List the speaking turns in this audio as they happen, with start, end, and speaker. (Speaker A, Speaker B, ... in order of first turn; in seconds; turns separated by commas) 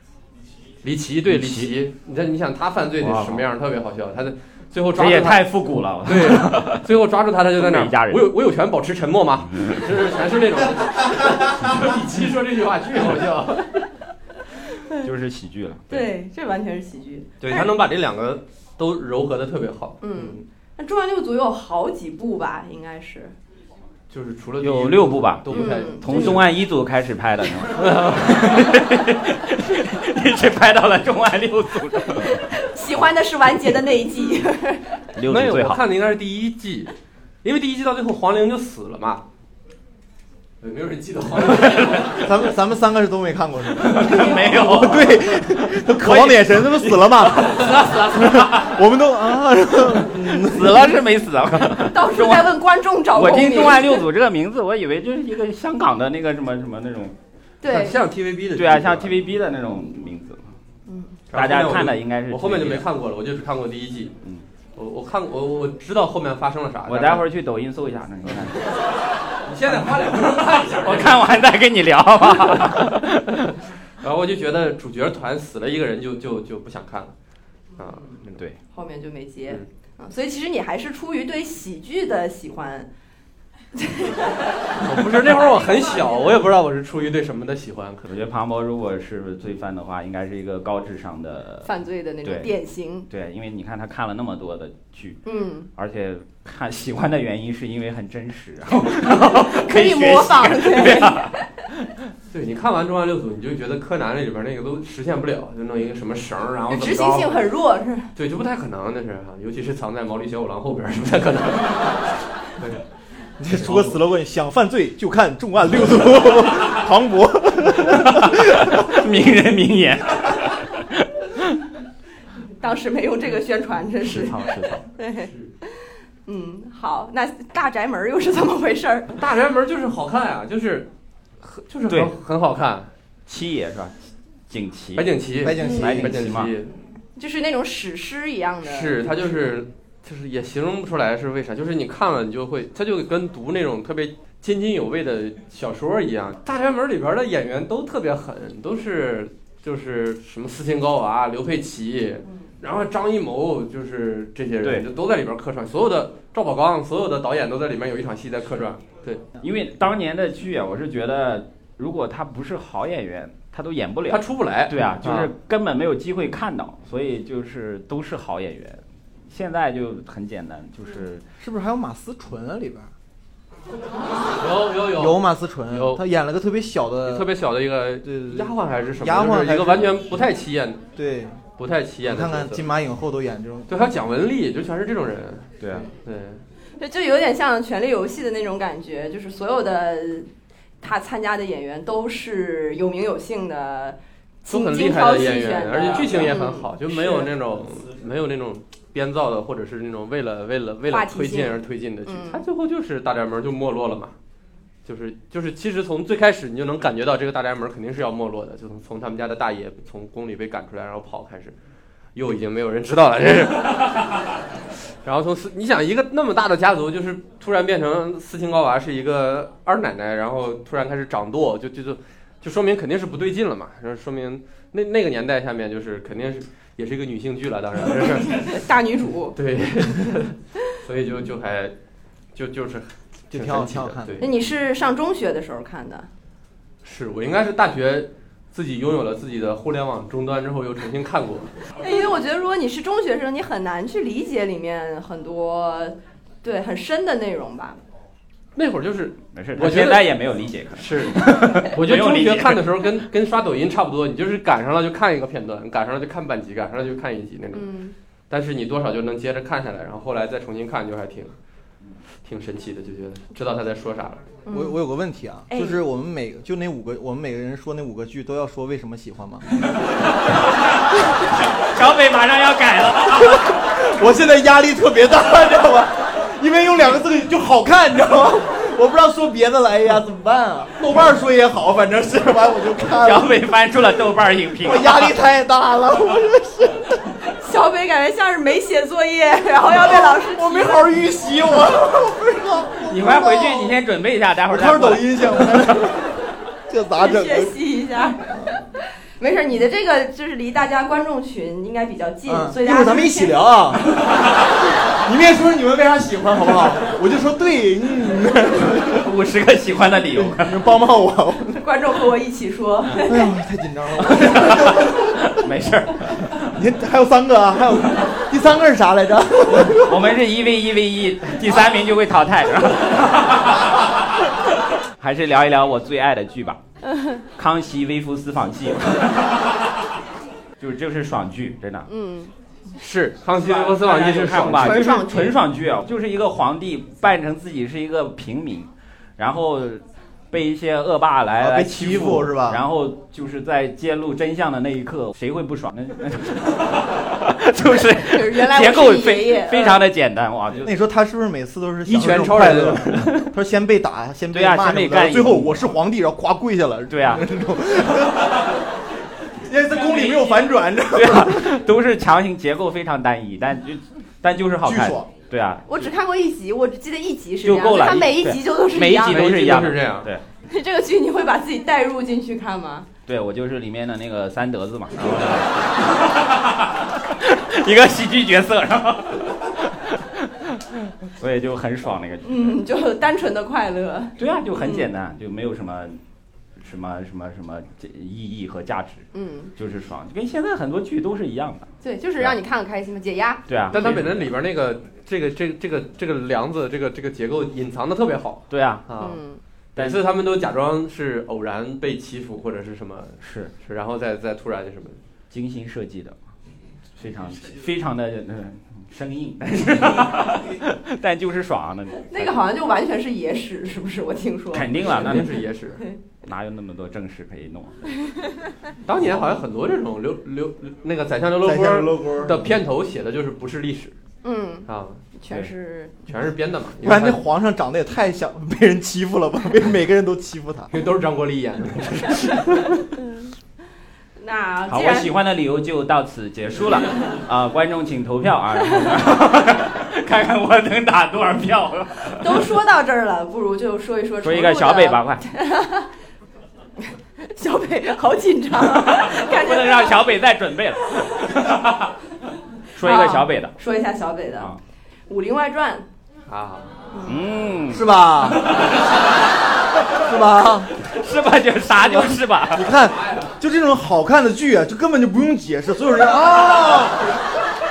Speaker A: 0.8-5.5, Speaker B: 1.3-1.7, Speaker B: 3.0-3.4, Speaker B: 5.0-6.9, Speaker A: 6.0-13.8, Speaker B: 7.6-8.2, Speaker B: 15.0-16.1, Speaker C: 15.9-17.7, Speaker A: 17.4-20.4, Speaker C: 20.0-23.3, Speaker A: 24.1-26.5, Speaker B: 24.6-32.5, Speaker C: 25.5-26.4, Speaker A: 27.7-28.7, Speaker C: 32.2-35.0, Speaker B: 35.1-35.8, Speaker A: 35.3-36.9, Speaker A: 37.4-39.2, Speaker A: 40.6-42.3, Speaker B: 41.5-42.2, Speaker D: 42.2-50.9, Speaker B: 43.8-45.4, Speaker A: 44.2-44.5, Speaker A: 47.4-48.1, Speaker B: 47.6-48.4, Speaker B: 50.1-52.5, Speaker C: 51.8-54.0, Speaker B: 53.1-57.1, Speaker C: 57.6-58.0, Speaker A: 57.6-59.2, Speaker B: 58.5-60.4, Speaker C: 60.9-61.2, Speaker A: 61.3-64.2, Speaker B: 61.3-62.8, Speaker A: 64.8-67.2, Speaker B: 66.9-68.6, Speaker A: 69.5-71.3, Speaker B: 70.8-73.5, Speaker A: 72.5-73.0, Speaker A: 74.0-77.1, Speaker A: 77.8-78.4, Speaker C: 78.7-82.9, Speaker C: 83.8-84.5, Speaker A: 84.8-88.1, Speaker B: 88.1-91.7, Speaker C: 91.6-93.1, Speaker B: 92.2-95.2, Speaker C: 95.2-95.7, Speaker B: 95.8-101.9, Speaker C: 98.8-101.6, Speaker A: 102.3-107.4, Speaker C: 106.7-108.1, Speaker A: 108.2-112.8, Speaker D: 113.4-119.0, Speaker A: 113.5-114.0, Speaker B: 117.7-121.6, Speaker C: 122.6-129.2, Speaker B: 124.0-124.8, Speaker A: 129.2-130.9, Speaker A: 131.4-132.9, Speaker B: 133.3-134.0, Speaker B: 134.5-135.1, Speaker A: 134.9-136.7, Speaker D: 135.4-136.4, Speaker B: 135.6-136.5, Speaker C: 137.2-139.3, Speaker A: 138.6-159.2, Speaker B: 159.4-171.2, Speaker A: 164.1-165.3, Speaker D: 171.4-172.9, Speaker A: 174.4-176.0, Speaker D: 174.9-177.3, Speaker A: 177.0-180.8, Speaker D: 178.0-180.1, Speaker D: 180.9-181.4, Speaker A: 181.6-182.7, Speaker D: 182.0-183.7, Speaker A: 183.7-186.4, Speaker B: 185.6-185.9, Speaker C: 186.8-190.3, Speaker C: 190.8-197.3, Speaker A: 194.5-204.1, Speaker C: 200.9-202.4, Speaker A: 204.8-211.6, Speaker A: 212.1-214.0, Speaker A: 215.0-228.6, Speaker C: 228.3-229.3, Speaker A: 229.3-231.7, Speaker A: 232.3-234.3, Speaker D: 233.3-234.3, Speaker C: 234.2-236.1, Speaker A: 236.8-241.6, Speaker C: 241.8-247.8, Speaker A: 248.6-250.1, Speaker B: 249.3-252.8, Speaker A: 250.7-257.7, Speaker C: 257.5-257.9, Speaker A: 258.3-261.3, Speaker A: 262.2-264.2, Speaker C: 264.4-264.8, Speaker D: 264.5-269.4, Speaker C: 265.5-265.8, Speaker B: 271.4-273.5, Speaker D: 273.1-283.4, Speaker B: 283.0-285.1, Speaker D: 284.6-287.0, Speaker C: 287.3-290.9, Speaker D: 289.6-293.6, Speaker B: 292.8-295.9, Speaker D: 294.5-296.2, Speaker D: 296.7-297.6, Speaker C: 297.0-298.4, Speaker D: 298.2-298.6, Speaker C: 299.2-303.4, Speaker D: 302.3-304.0, Speaker D: 304.9-309.1, Speaker B: 309.0-310.6, Speaker D: 310.1-311.6, Speaker C: 311.6-313.3, Speaker D: 312.9-315.3, Speaker B: 314.0-316.5, Speaker D: 316.4-320.1, Speaker B: 319.7-323.7, Speaker B: 325.0-326.6, Speaker C: 326.9-327.2, Speaker B: 327.4-329.3, Speaker B: 330.6-331.9, Speaker C: 331.9-332.3, Speaker A: 332.8-335.0, Speaker B: 333.4-350.7, Speaker C: 334.5-335.4, Speaker D: 341.4-342.6, Speaker C: 348.0-349.8, Speaker D: 350.6-358.5, Speaker A: 351.9-353.2, Speaker B: 354.3-355.7, Speaker B: 356.9-357.2, Speaker D: 359.3-361.6, Speaker B: 360.9-365.7, Speaker D: 364.6-365.1, Speaker C: 365.6-369.3, Speaker B: 367.4-370.2, Speaker A: 369.0-370.1, Speaker C: 370.5-372.9, Speaker B: 373.1-382.6, Speaker C: 382.2-384.9, Speaker B: 384.2-386.0, Speaker B: 386.6-392.4, Speaker C: 389.1-389.5, Speaker C: 391.8-393.4, Speaker B: 393.5-394.3, Speaker A: 393.7-399.2, Speaker B: 398.5-398.9, Speaker C: 399.0-399.4, Speaker A: 399.7-405.0, Speaker B: 403.2-403.5, Speaker B: 405.3-406.2, Speaker B: 407.0-412.4, Speaker C: 412.1-415.2, Speaker B: 414.5-415.4, Speaker A: 414.8-415.8, Speaker B: 416.2-417.9, Speaker A: 418.9-423.9, Speaker D: 421.4-422.6, Speaker C: 424.2-426.1, Speaker A: 424.7-425.0, Speaker A: 426.1-427.2, Speaker D: 426.8-430.7, Speaker A: 430.7-432.8, Speaker C: 434.2-435.1, Speaker B: 434.7-442.4, Speaker C: 442.2-445.9, Speaker B: 444.2-445.2, Speaker C: 447.2-450.1, Speaker B: 448.6-451.9, Speaker B: 452.7-453.5, Speaker C: 452.8-454.5, Speaker C: 455.1-455.9, Speaker A: 456.3-456.7, Speaker C: 456.9-457.2, Speaker B: 457.0-457.9, Speaker D: 457.7-458.5, Speaker B: 458.4-458.7, Speaker D: 459.9-460.7, Speaker B: 460.8-462.8, Speaker D: 461.8-467.1